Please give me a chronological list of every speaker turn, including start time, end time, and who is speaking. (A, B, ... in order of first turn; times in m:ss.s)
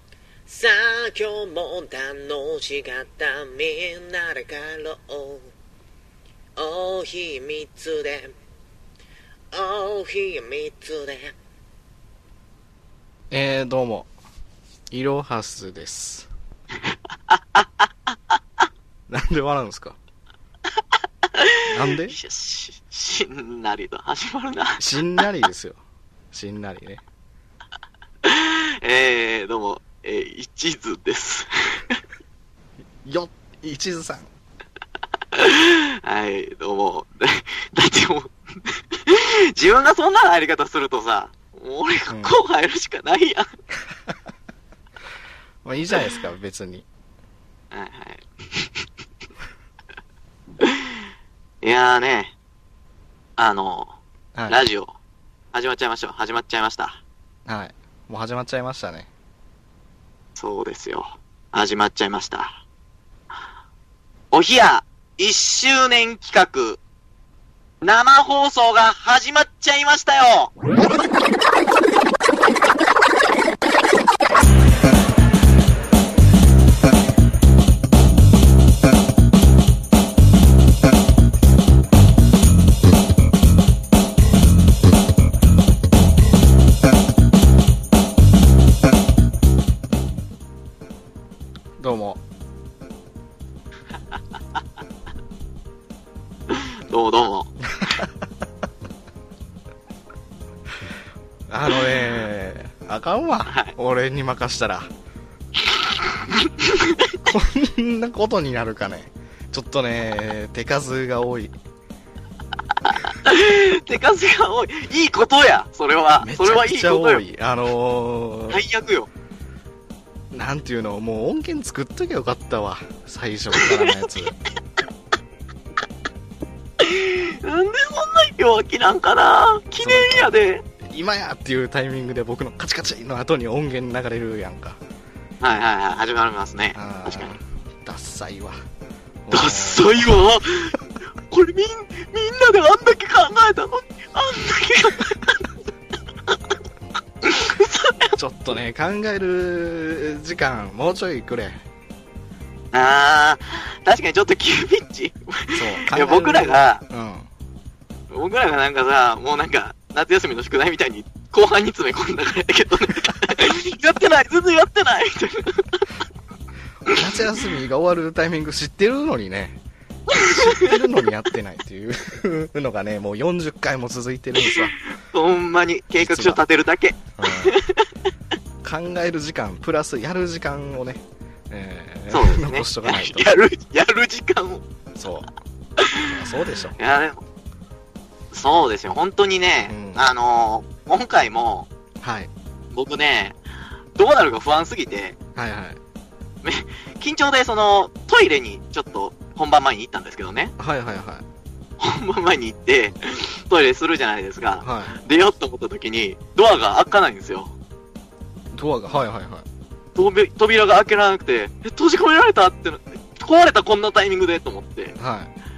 0:00.4-0:05.5 A
0:06.6-0:08.3 A
0:09.5-0:11.3 A
0:13.3-0:14.1 B
0:14.9-0:16.3 B
0:17.3-0:17.7 C
0:19.1-0:20.0 B
0:21.3-0:24.8 C
0:21.6-0:22.2 B
0:24.8-0:25.8 B
0:26.3-0:27.0 B
0:28.2-0:32.0 C
0:33.0-0:34.3 B
0:35.3-0:43.4 C
0:45.6-0:46.8 B
0:47.7-0:48.8 C
0:50.6-0:51.0 C
0:51.6-0:52.3 C
0:53.4-0:54.0 C
0:54.3-0:54.6 B
0:54.5-0:55.0 C
0:55.5-0:57.0 C
0:57.4-0:59.1 B
1:00.4-1:02.6 C
1:04.3-1:06.8 C
1:07.8-1:10.5 C
1:31.8-1:32.2 B
1:36.5-1:37.5 C
1:37.7-1:38.1 B
1:41.5-1:44.9 B
1:46.3-1:47.2 C
1:47.3-1:51.5 B
1:52.8-1:57.2 C
1:56.2-1:58.6 B
1:58.5-1:59.1 C
2:00.3-2:04.3 B
2:03.5-2:04.3 C
2:06.8-2:10.6 C
2:09.8-2:14.8 B
2:15.4-2:17.4 C
2:16.7-2:18.6 B
2:19.2-2:20.1 B
2:19.3-2:25.5 C
2:27.2-2:28.1 C
2:28.2-2:31.6 B
2:32.7-2:36.8 C
2:35.5-2:37.3 B
2:38.1-2:45.8 C
2:46.8-2:49.6 B
2:50.1-2:50.8 C
2:50.1-2:54.7 B
2:54.4-2:57.8 C
2:56.0-2:56.4 B
2:57.2-2:57.6 B
2:58.6-3:03.3 B
3:02.1-3:04.6 C
3:04.9-3:05.3 B
3:05.8-3:06.2 C
3:06.0-3:06.8 B
3:06.8-3:07.2 C
3:08.3-3:11.7 C
3:09.7-3:10.0 B
3:12.0-3:12.3 B
3:12.7-3:13.4 C
3:14.0-3:15.2 C
3:15.4-3:15.8 B
3:16.4-3:20.5 C
3:20.6-3:21.2 B
3:21.8-3:27.5 C
3:24.6-3:25.0 B
3:28.5-3:29.4 B
3:29.9-3:34.9 C
3:35.0-3:35.3 B